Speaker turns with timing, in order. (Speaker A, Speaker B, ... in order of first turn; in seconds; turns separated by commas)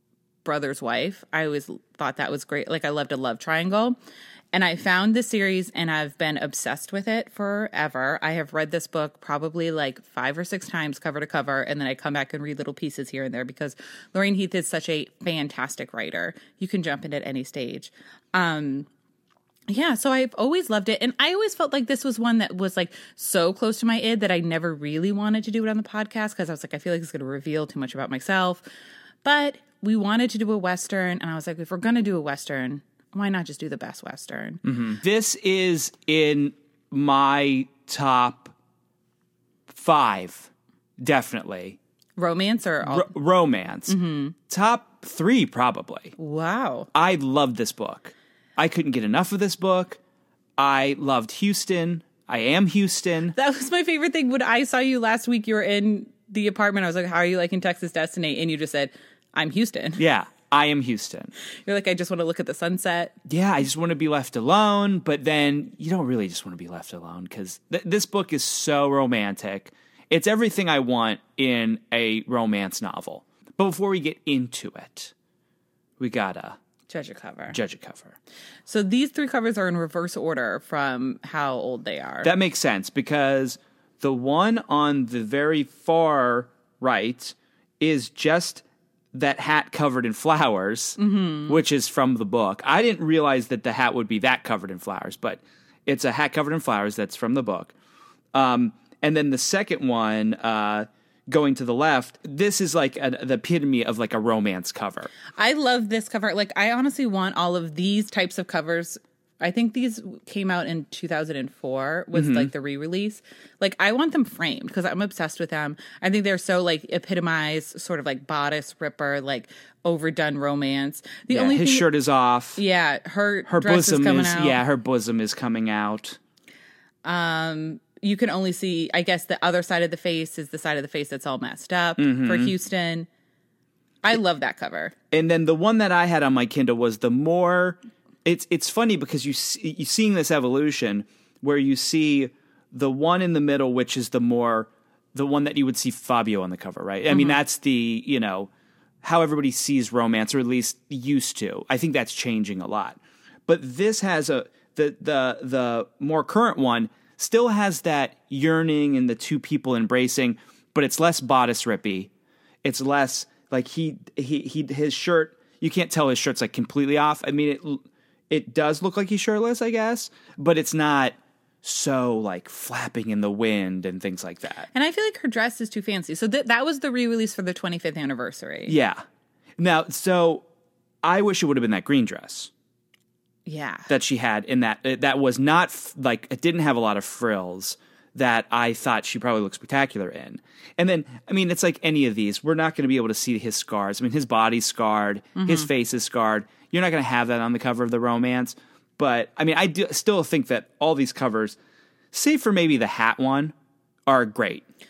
Speaker A: 0.5-4.0, Speaker A: 4.5-18.9, Speaker A: 19.7-28.6, Speaker A: 29.2-34.6, Speaker B: 34.7-38.5, Speaker B: 39.7-41.8, Speaker A: 42.2-43.1, Speaker B: 42.9-44.0, Speaker A: 43.9-44.4, Speaker B: 44.5-46.1, Speaker A: 46.2-46.9, Speaker B: 46.9-50.0, Speaker B: 50.6-53.3, Speaker A: 53.3-60.0, Speaker B: 60.0-61.3, Speaker A: 61.6-63.2, Speaker B: 63.3-75.1, Speaker B: 76.0-76.6, Speaker A: 76.9-77.6, Speaker B: 77.5-78.2, Speaker A: 78.7-82.3, Speaker B: 82.2-97.7, Speaker A: 91.0-91.6, Speaker B: 98.3-105.1, Speaker A: 105.3-121.9, Speaker B: 112.1-112.5, Speaker B: 121.3-122.6, Speaker A: 122.6-124.6, Speaker B: 123.5-126.2, Speaker A: 127.0-133.1, Speaker B: 132.0-132.5, Speaker A: 134.0-134.9, Speaker B: 135.1-148.5, Speaker A: 147.1-147.4, Speaker B: 149.0-162.1, Speaker B: 162.6-174.7, Speaker A: 174.7-178.8, Speaker B: 178.7-179.0, Speaker B: 179.6-180.4, Speaker B: 181.0-182.5, Speaker A: 183.5-183.9, Speaker B: 183.9-201.6, Speaker A: 195.4-195.7, Speaker B: 202.1-203.6, Speaker B: 204.1-204.7